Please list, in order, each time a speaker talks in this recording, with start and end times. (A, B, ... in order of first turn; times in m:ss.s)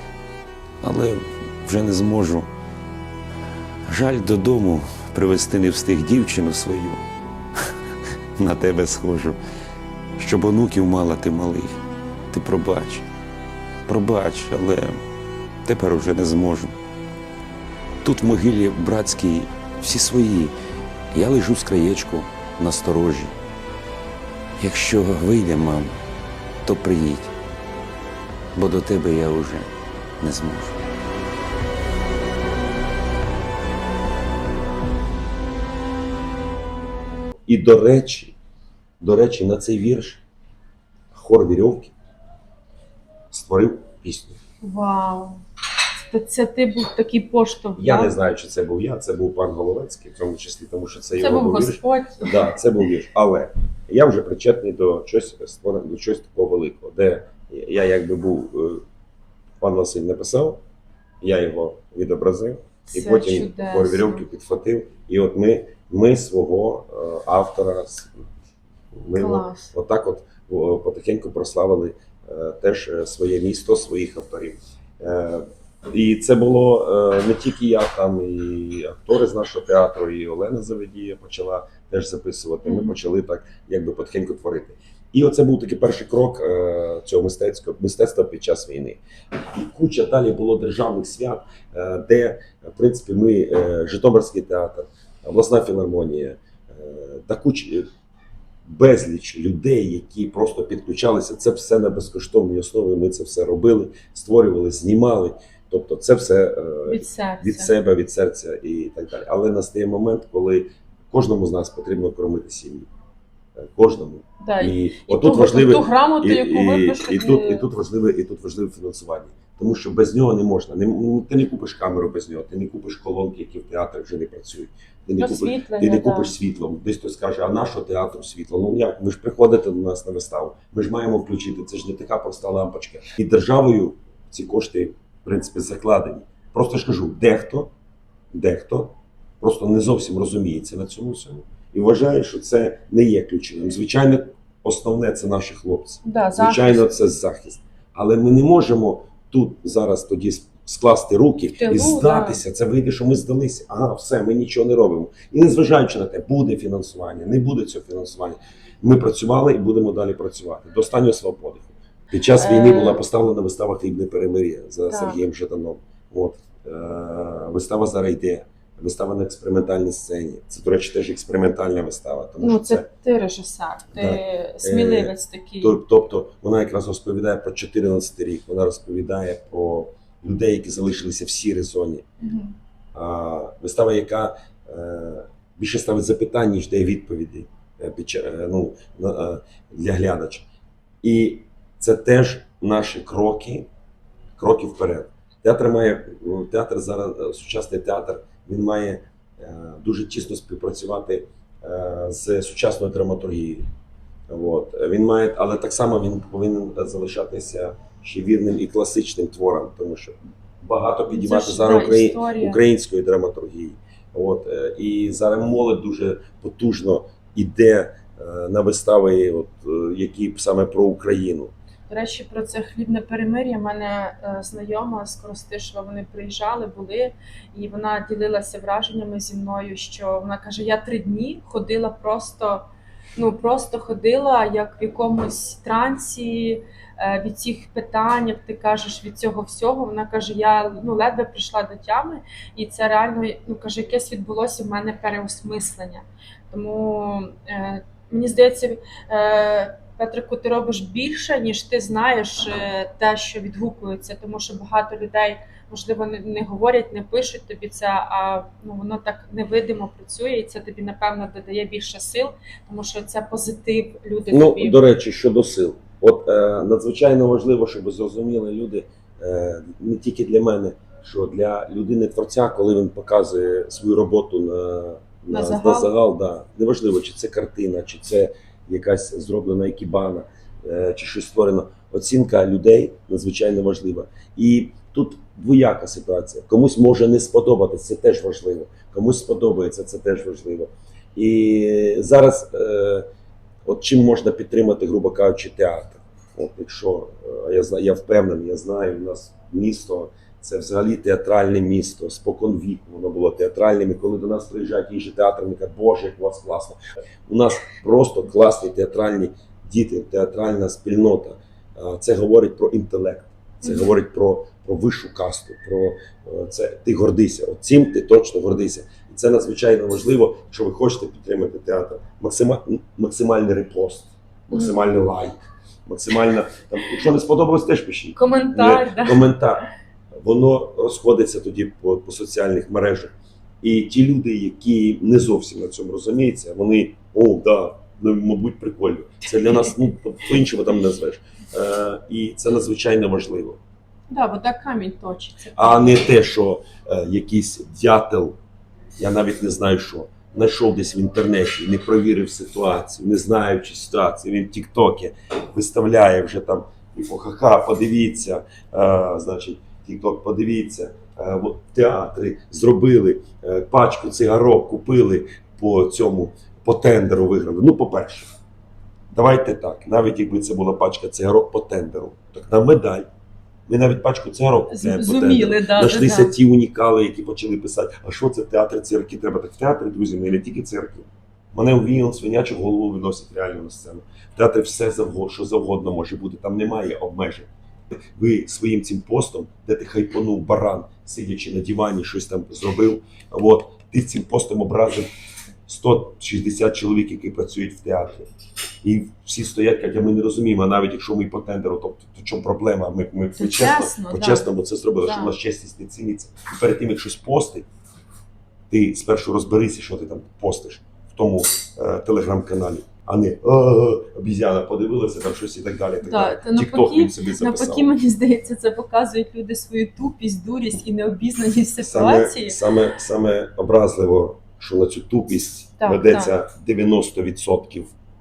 0:00.8-0:02.5 A
0:03.9-0:07.0 A
0:08.4-0:09.4 A
0:10.2-0:11.8 A
0:12.3-0:13.0 A
0:13.9-0:15.0 A
0:15.6-0:16.7 A
0:18.0-0:20.5 A
0:21.1-0:23.3 A
0:24.6-0:25.9 A
0:26.6-0:27.3 A
0:28.5-0:30.8 A
0:37.5-0:38.3 B
0:39.0-0:40.2 B
0:41.1-0:41.9 B
0:43.3-0:44.4 B
0:44.6-0:45.4 C
0:46.0-0:48.2 C
0:47.8-0:58.8 B
0:51.2-0:52.4 C
0:59.6-1:00.6 B
1:01.2-1:08.1 B
1:02.9-1:04.2 C
1:08.9-1:29.0 B
1:09.1-1:09.7 C
1:22.6-1:22.9 C
1:29.5-1:37.9 B
1:38.6-1:52.9 B
1:46.8-1:47.7 C
1:53.6-2:17.7 B
1:54.4-1:57.6 C
2:05.2-2:06.3 C
2:18.3-2:52.8 B
2:26.0-2:26.8 C
2:31.6-2:32.4 C
2:42.3-2:43.0 C
2:44.9-2:45.2 C
2:52.4-2:55.7 C
2:53.9-3:02.0 B
3:02.2-3:02.5 C
3:02.9-3:10.4 B
3:11.0-3:13.7 B
3:14.4-3:23.6 B
3:24.3-3:41.5 B
3:31.1-3:32.6 C
3:41.9-4:24.8 C
4:24.3-4:53.1 B
4:35.3-4:35.9 C
4:53.6-5:43.6 B
5:28.2-5:29.3 C
5:44.1-5:46.1 C
5:45.6-5:48.4 B
5:49.0-6:08.3 B
6:09.1-6:13.1 B
6:13.7-6:27.5 B
6:14.7-6:16.4 C
6:28.1-6:35.1 B
6:35.7-6:38.2 B
6:38.8-6:47.6 B
6:43.4-6:44.5 C
6:45.0-6:45.3 C
6:48.7-6:57.9 B
6:56.0-7:02.6 C
7:01.8-7:07.9 B
7:05.8-7:06.3 C